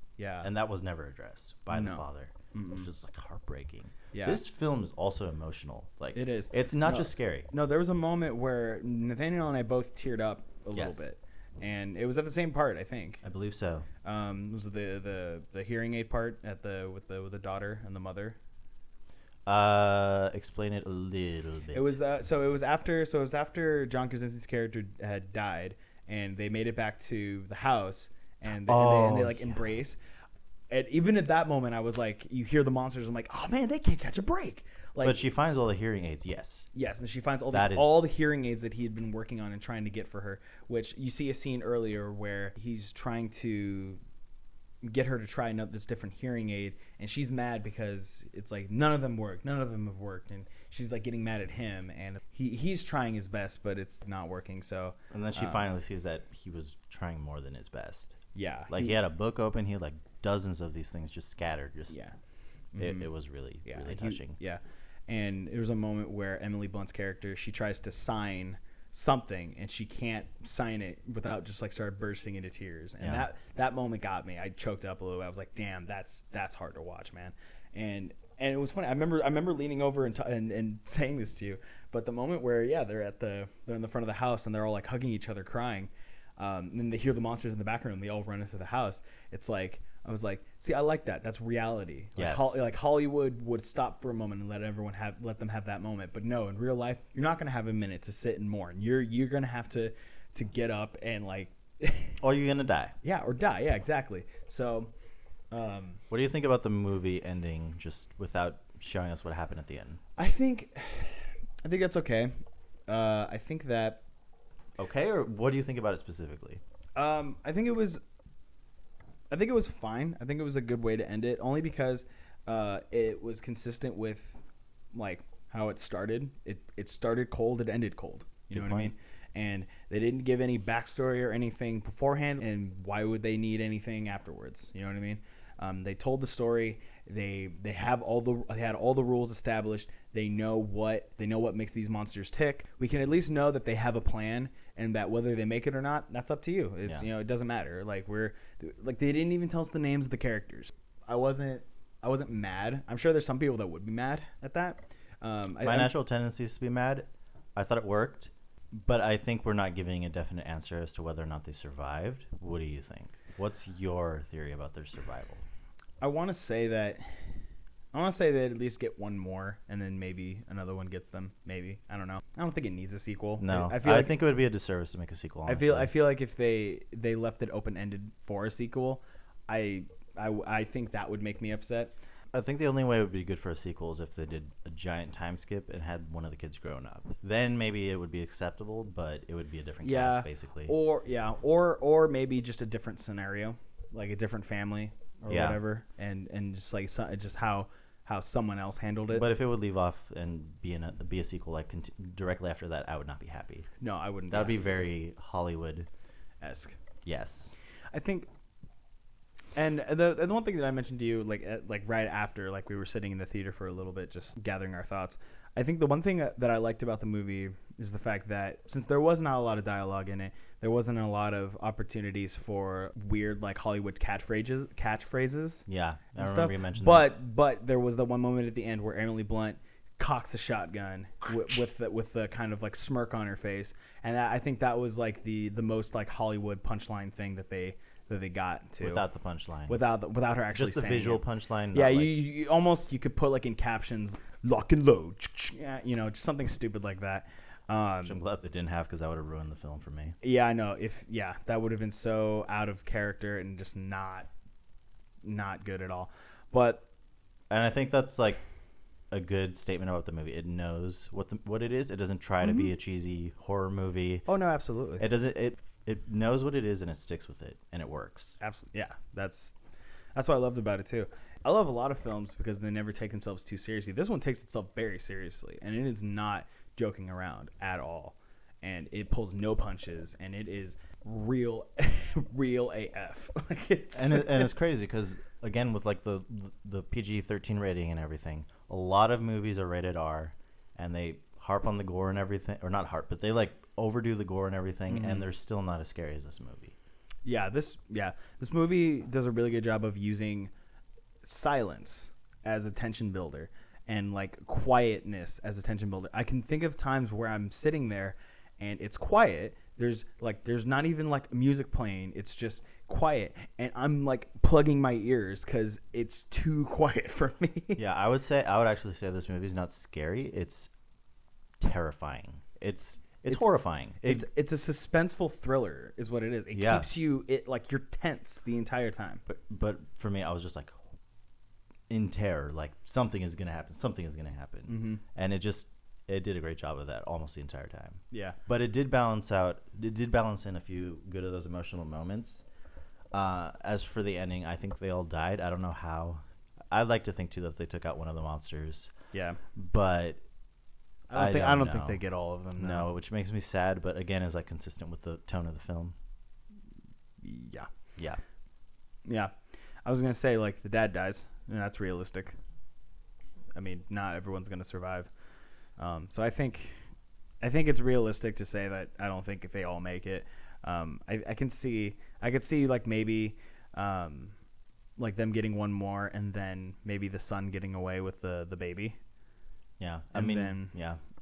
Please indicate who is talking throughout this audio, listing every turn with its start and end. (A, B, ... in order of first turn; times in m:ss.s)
0:00.2-0:00.5 A
0:00.4-0:07.5 B
0:01.7-0:02.9 A
0:04.1-0:04.4 A
0:06.2-0:13.2 A
0:10.7-0:11.1 B
0:13.2-0:13.9 B
0:14.0-0:18.4 A
0:19.5-0:22.0 B
0:21.7-0:30.0 A
0:28.5-0:29.7 B
0:30.7-0:35.2 A
0:35.0-0:36.7 B
0:36.7-0:44.0 A
0:37.5-0:38.0 B
0:44.8-0:55.7 A
0:55.1-1:02.0 B
0:58.3-0:59.0 A
1:01.9-1:02.2 A
1:02.7-1:03.1 A
1:02.8-1:04.4 B
1:03.6-1:42.2 A
1:13.0-1:13.3 B
1:32.2-1:32.6 B
1:42.2-1:43.0 B
1:43.0-1:44.9 A
1:45.5-1:46.0 A
1:46.1-1:50.0 B
1:50.2-1:52.3 A
1:52.9-1:54.0 A
1:54.8-1:56.6 B
1:57.0-1:58.0 A
1:59.3-2:04.4 A
2:04.9-2:35.9 A
2:08.5-2:08.9 B
2:35.6-2:45.5 B
2:46.0-2:47.2 A
2:47.9-2:54.1 A
2:53.4-2:55.9 B
2:55.5-3:01.9 A
3:02.3-3:10.7 B
3:09.8-3:19.3 A
3:15.3-3:15.6 B
3:19.1-3:23.7 B
3:23.8-3:24.8 A
3:24.3-3:25.9 B
3:26.4-3:26.8 A
3:27.0-3:27.5 B
3:27.9-3:28.3 A
3:29.6-3:59.0 A
3:45.7-3:47.1 B
3:58.8-3:59.8 B
3:59.7-4:08.2 A
4:00.6-4:02.2 B
4:08.0-4:10.2 B
4:10.2-4:14.3 A
4:15.2-4:16.9 A
4:17.5-4:18.4 B
4:19.1-4:24.3 B
4:22.4-4:22.7 A
4:24.3-4:25.1 A
4:25.0-4:28.4 B
4:28.4-4:29.6 A
4:30.2-4:44.5 A
4:43.9-4:56.8 B
4:54.9-4:55.3 A
4:57.2-5:00.5 A
5:01.2-5:17.8 A
5:17.8-5:20.7 B
5:21.6-5:24.3 B
5:24.0-5:29.2 A
5:26.5-5:26.9 B
5:29.3-5:30.8 B
5:31.9-5:42.4 B
5:34.7-5:35.0 A
5:38.1-5:38.4 A
5:43.1-5:48.9 B
5:49.1-5:49.4 A
5:49.5-5:50.2 B
5:51.1-5:52.9 A
5:51.2-5:52.0 B
5:52.6-5:56.0 B
5:57.2-5:57.7 A
5:58.0-5:58.2 B
5:59.1-5:59.3 A
5:59.8-6:02.4 A
6:03.6-6:05.1 A
6:05.8-6:06.8 A
6:07.4-6:14.4 A
6:15.0-6:19.0 A
6:19.8-6:21.0 B
6:20.1-6:20.8 A